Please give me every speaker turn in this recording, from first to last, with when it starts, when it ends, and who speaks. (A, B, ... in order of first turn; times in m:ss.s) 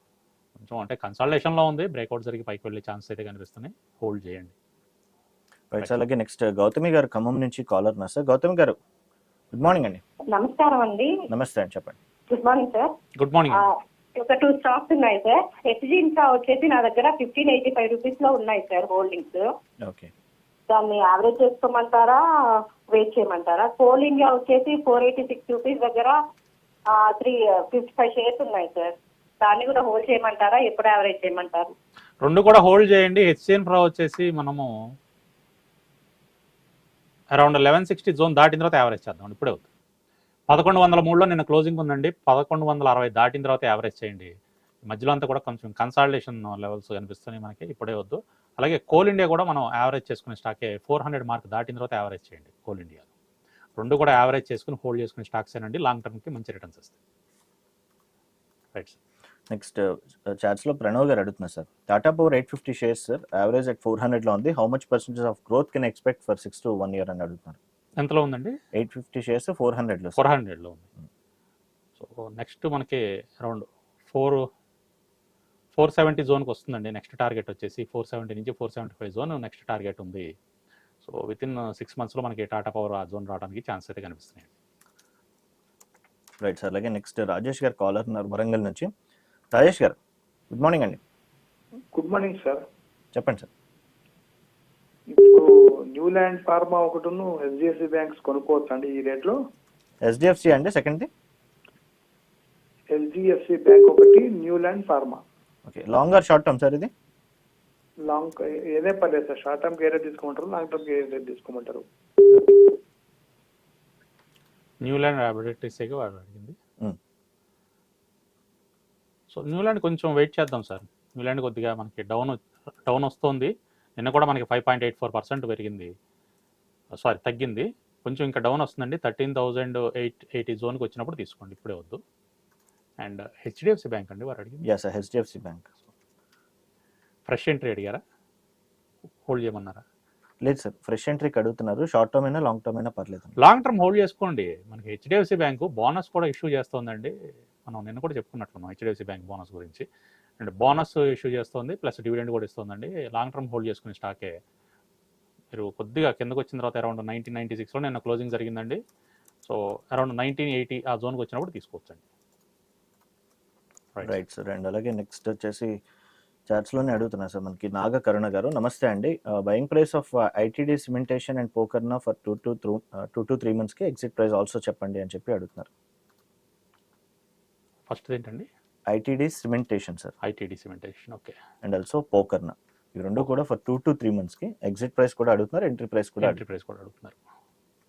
0:00.6-0:04.5 A
0:05.7-0:08.8 B
0:09.5-0:10.0 B
0:10.3-0:11.1 C
0:11.3-0:12.0 B
0:12.3-0:12.9 C
0:13.2-0:13.6 A
0:13.5-0:19.5 C
0:19.8-0:20.1 B
0:20.7-0:22.2 C
0:22.9-0:26.2 C
0:26.9-0:31.7 C
0:32.2-0:34.7 A
0:37.3-0:39.6 A
0:40.5-0:44.3 A
0:44.9-0:53.1 A
0:53.8-0:57.0 A
0:59.5-1:07.6 B
1:08.0-1:08.6 A
1:08.7-1:10.2 B
1:10.2-1:10.8 A
1:12.0-1:14.5 A
1:15.7-1:20.3 A
1:21.0-1:24.5 A
1:26.4-1:28.9 B
1:29.5-1:30.0 B
1:30.5-1:31.0 B
1:31.9-1:32.6 D
1:33.1-1:33.5 B
1:35.1-1:39.4 D
1:40.0-1:41.1 B
1:42.9-1:45.2 D
1:45.6-1:46.9 B
1:48.0-1:51.8 D
1:54.8-1:56.6 A
1:59.3-2:05.9 A
2:07.0-2:12.0 A
2:13.0-2:14.6 A
2:14.6-2:15.7 B
2:17.3-2:18.0 A
2:19.3-2:19.8 A
2:20.4-2:23.3 B
2:23.4-2:27.1 A
2:27.6-2:29.8 A
2:30.4-2:34.4 A
2:35.5-2:38.8 A
2:39.4-2:42.0 A
2:44.0-2:45.8 B
2:46.5-2:55.7 B
2:57.9-2:58.5 A
2:58.9-3:00.1 B
3:00.2-3:01.3 A
3:01.6-3:06.4 B
3:06.2-3:07.2 A